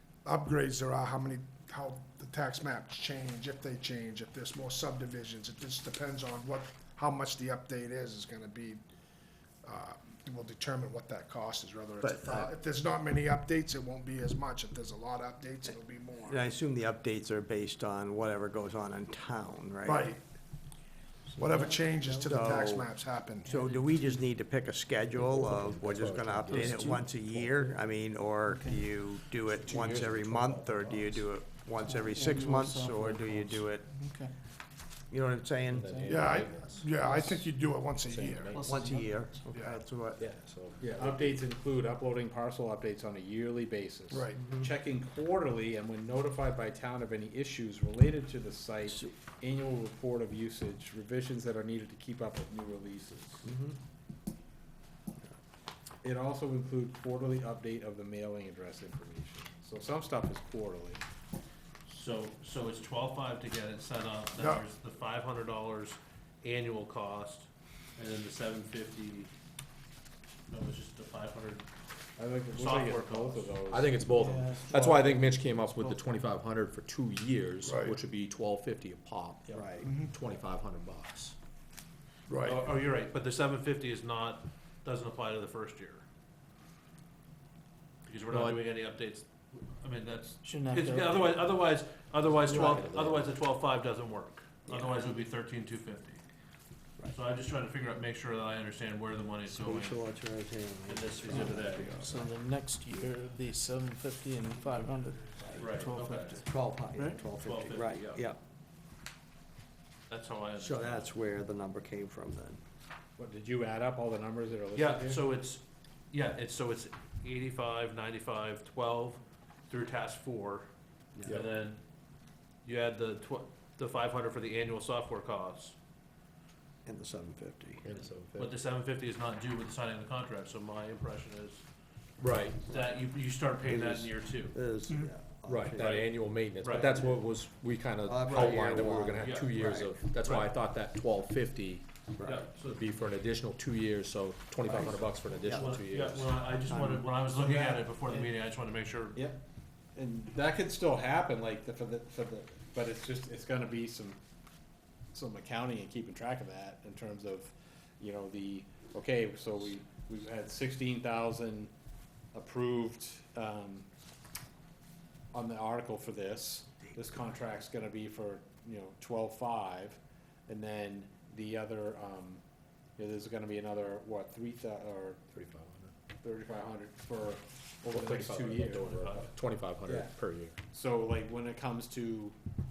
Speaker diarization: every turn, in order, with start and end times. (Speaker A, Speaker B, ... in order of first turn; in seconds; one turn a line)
Speaker A: 0.2-8.8
Speaker A: 9.6-16.4
Speaker B: 12.0-12.5
Speaker B: 16.2-20.1
Speaker A: 19.9-20.2
Speaker C: 21.4-22.4
Speaker A: 21.4-23.6
Speaker B: 22.2-22.9
Speaker B: 23.5-33.9
Speaker C: 23.5-24.2
Speaker D: 25.1-27.8
Speaker C: 26.4-27.1
Speaker C: 28.4-28.9
Speaker D: 29.6-31.3
Speaker C: 31.8-34.3
Speaker B: 35.1-36.0
Speaker D: 35.7-37.3
Speaker C: 35.8-36.3
Speaker A: 36.0-38.6
Speaker C: 37.0-37.3
Speaker D: 38.0-38.9
Speaker C: 38.5-39.5
Speaker B: 38.6-40.2
Speaker A: 39.5-39.8
Speaker D: 40.2-41.4
Speaker E: 40.8-53.5
Speaker A: 44.1-44.4
Speaker B: 53.5-53.8
Speaker E: 56.0-61.0
Speaker F: 61.9-69.3
Speaker A: 64.3-64.7
Speaker F: 70.5-71.7
Speaker E: 72.2-74.0
Speaker F: 72.5-73.5
Speaker D: 73.7-81.3
Speaker C: 74.1-75.0
Speaker A: 77.6-78.0
Speaker B: 79.5-79.9
Speaker A: 79.8-80.1
Speaker A: 82.3-82.6
Speaker F: 82.4-86.0
Speaker F: 88.0-96.2
Speaker D: 88.3-88.6
Speaker C: 90.4-91.4
Speaker D: 92.4-93.3
Speaker B: 92.5-92.9
Speaker B: 94.7-95.1
Speaker F: 97.1-100.0
Speaker B: 99.5-102.3
Speaker F: 100.9-102.0
Speaker C: 101.2-107.2
Speaker B: 105.4-105.7
Speaker F: 105.6-106.4
Speaker B: 106.3-108.4
Speaker F: 107.3-108.2
Speaker F: 110.1-111.1
Speaker B: 110.6-112.6
Speaker E: 113.2-115.2
Speaker F: 114.7-120.7
Speaker B: 121.2-121.4
Speaker F: 121.2-121.8
Speaker F: 122.6-125.8
Speaker B: 126.8-127.8
Speaker D: 127.8-128.6
Speaker F: 128.3-131.6
Speaker D: 132.2-132.6
Speaker F: 132.6-134.6
Speaker B: 133.6-136.1
Speaker C: 134.9-135.1
Speaker D: 135.5-141.8
Speaker F: 135.8-137.1
Speaker B: 136.7-137.2
Speaker B: 138.0-139.9
Speaker F: 138.2-140.5
Speaker B: 142.2-142.4
Speaker F: 142.2-142.8
Speaker D: 142.6-146.4
Speaker B: 144.6-145.8
Speaker F: 145.5-149.2
Speaker B: 146.7-148.2
Speaker E: 149.1-149.4
Speaker E: 149.9-154.2
Speaker E: 155.1-161.7
Speaker E: 162.3-163.9
Speaker E: 165.3-172.4
Speaker E: 173.0-175.2
Speaker D: 175.3-175.9
Speaker E: 176.2-179.2
Speaker D: 177.9-180.6
Speaker F: 178.8-179.3
Speaker E: 179.8-180.1
Speaker E: 180.7-182.4